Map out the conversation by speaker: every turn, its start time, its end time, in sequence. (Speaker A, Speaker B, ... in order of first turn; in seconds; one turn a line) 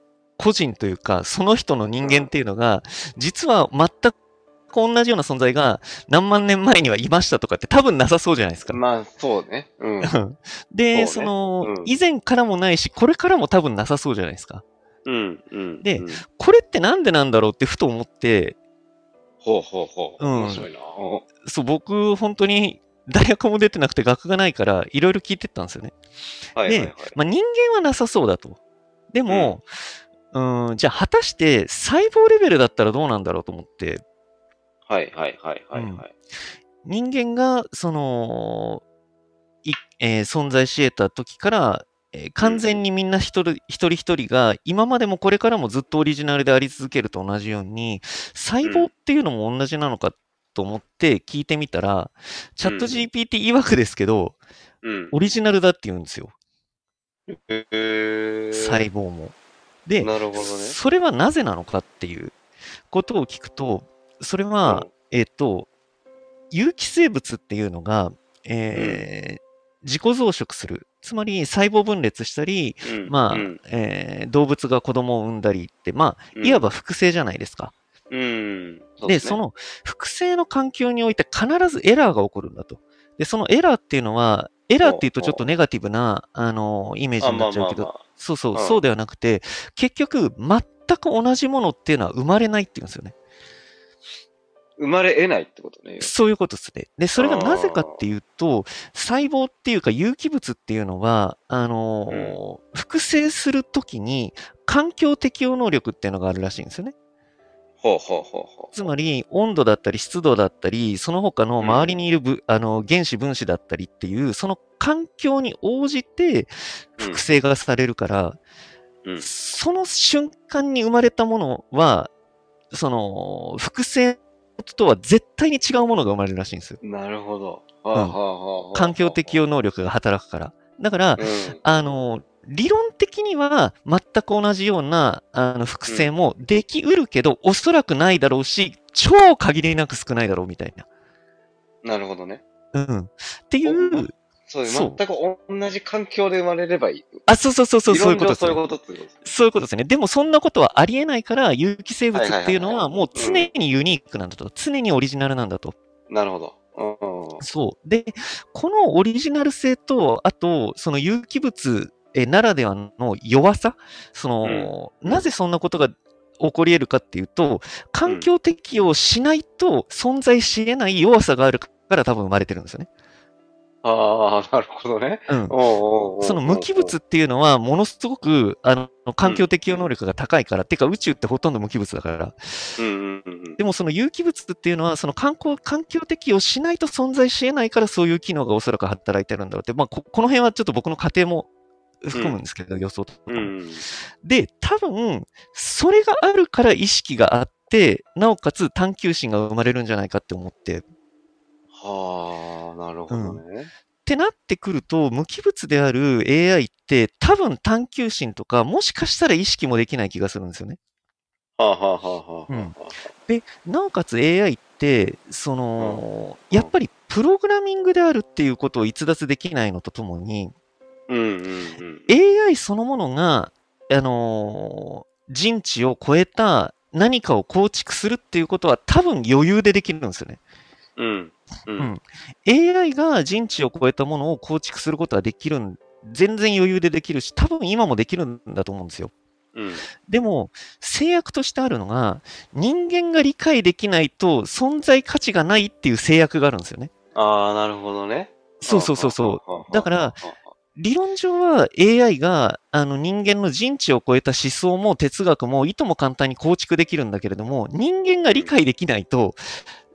Speaker A: 0.4-4.1
Speaker B: 2.0-2.3
Speaker A: 4.7-8.8
Speaker B: 8.7-10.2
Speaker A: 10.0-14.6
Speaker B: 10.9-11.9
Speaker B: 15.0-16.2
Speaker A: 15.8-18.6
Speaker B: 19.4-21.3
Speaker A: 20.2-20.7
Speaker A: 21.4-25.9
Speaker B: 26.6-27.1
Speaker A: 26.6-28.6
Speaker A: 29.1-29.7
Speaker B: 29.3-29.6
Speaker A: 30.3-34.0
Speaker B: 34.9-36.1
Speaker A: 35.7-36.0
Speaker A: 36.8-38.8
Speaker A: 39.6-54.4
Speaker B: 42.4-42.8
Speaker B: 48.6-48.9
Speaker B: 52.6-53.1
Speaker B: 54.8-55.1
Speaker A: 55.1-56.3
Speaker B: 57.3-58.8
Speaker A: 58.5-59.3
Speaker A: 59.9-62.4
Speaker B: 60.0-60.8
Speaker A: 62.9-65.7
Speaker A: 66.5-77.7
Speaker B: 68.7-69.0
Speaker B: 72.8-73.6
Speaker B: 76.3-76.7
Speaker B: 78.1-79.4
Speaker A: 79.0-93.1
Speaker B: 84.8-85.4
Speaker B: 87.2-88.8
Speaker B: 94.8-96.1
Speaker A: 96.0-106.9
Speaker B: 97.2-98.0
Speaker B: 102.1-102.4
Speaker B: 107.8-108.8
Speaker A: 108.7-118.4
Speaker B: 111.6-112.0
Speaker A: 119.2-122.1
Speaker A: 122.7-126.8
Speaker B: 126.8-129.4
Speaker A: 128.7-140.8
Speaker B: 131.2-131.6
Speaker B: 135.9-136.1
Speaker B: 141.8-142.4
Speaker A: 142.7-144.1
Speaker B: 143.6-147.3
Speaker A: 144.7-145.0
Speaker A: 147.3-148.6
Speaker B: 147.9-149.3
Speaker A: 149.2-155.7
Speaker B: 152.1-153.5
Speaker B: 156.1-157.4
Speaker A: 157.4-172.9
Speaker B: 164.4-165.3
Speaker B: 173.8-176.9
Speaker A: 175.3-175.5
Speaker A: 176.2-182.8
Speaker B: 179.2-179.8
Speaker B: 182.8-183.6
Speaker A: 183.6-191.5
Speaker A: 192.0-193.5
Speaker B: 192.1-192.4
Speaker B: 193.3-193.8
Speaker A: 194.2-200.8
Speaker B: 201.7-203.7
Speaker A: 203.1-203.4
Speaker A: 204.0-210.8
Speaker B: 211.6-213.0
Speaker A: 212.5-212.7
Speaker A: 213.3-220.5
Speaker B: 215.8-216.7
Speaker B: 221.1-222.1
Speaker A: 222.1-230.4
Speaker B: 231.0-231.9
Speaker A: 231.8-239.1
Speaker B: 239.5-239.9
Speaker A: 240.1-246.9
Speaker B: 247.1-250.5
Speaker A: 248.6-250.2
Speaker A: 250.8-259.4
Speaker B: 258.3-258.5